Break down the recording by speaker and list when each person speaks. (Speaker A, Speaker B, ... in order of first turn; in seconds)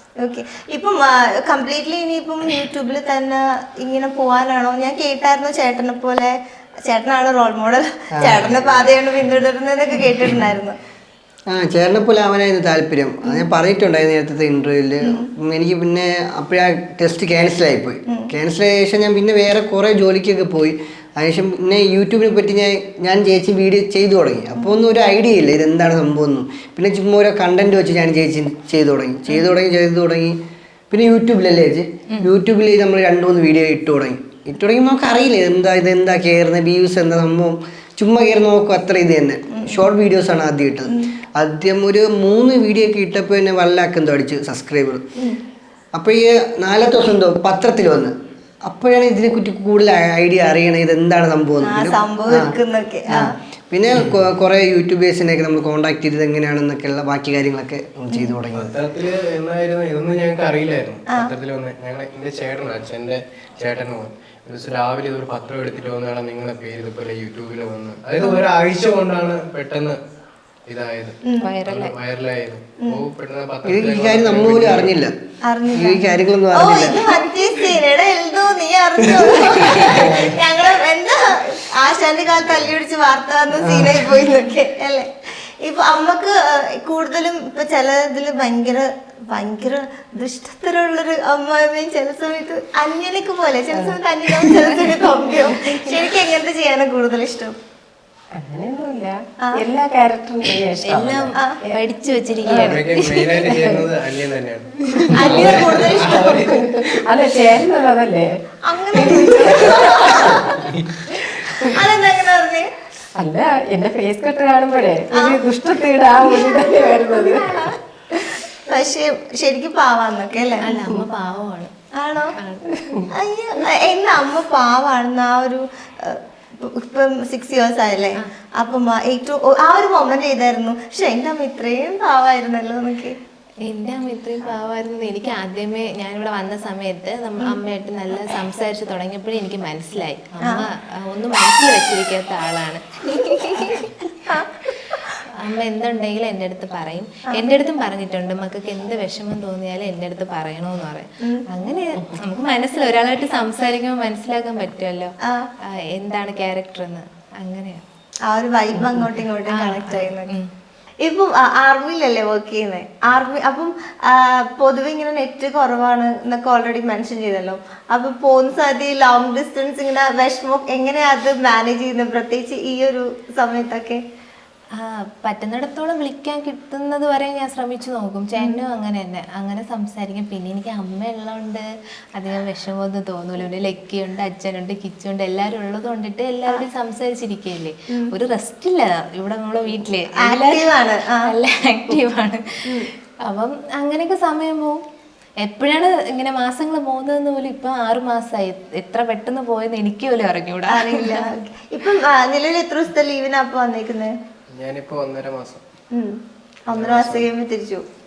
Speaker A: 0.2-10.8, 39.5-39.8, 51.6-53.4, 75.5-97.5, 105.1-106.4, 108.6-110.7, 111.5-112.7, 115.1-115.4, 116.3-120.7, 121.9-122.4, 123.1-133.2, 143.1-145.1, 155.2-155.5, 158.3-160.3, 161.0-174.0, 178.4-178.6, 190.2-191.3, 200.7-204.1, 206.7-207.8
Speaker B: 8.2-8.4, 11.5-30.4, 30.9-45.0, 45.9-52.5, 53.1-58.7, 73.7-75.1, 75.7-77.2, 83.6-84.1
Speaker C: 8.3-8.9, 58.5-70.0, 70.7-75.0, 79.8-80.5, 102.5-107.1, 110.5-111.1, 204.5-205.6, 206.7-207.3
Speaker D: 71.4-72.0, 100.8-103.5, 120.6-121.7, 122.4-123.0, 133.6-144.0, 145.3-157.8, 159.5-160.5, 174.7-190.7, 191.2-194.8, 195.4-201.3
Speaker E: 98.4-101.7, 102.4-102.8, 103.5-103.8, 106.4-108.3, 108.9-110.5, 113.2-117.7, 120.8-121.0, 122.8-123.1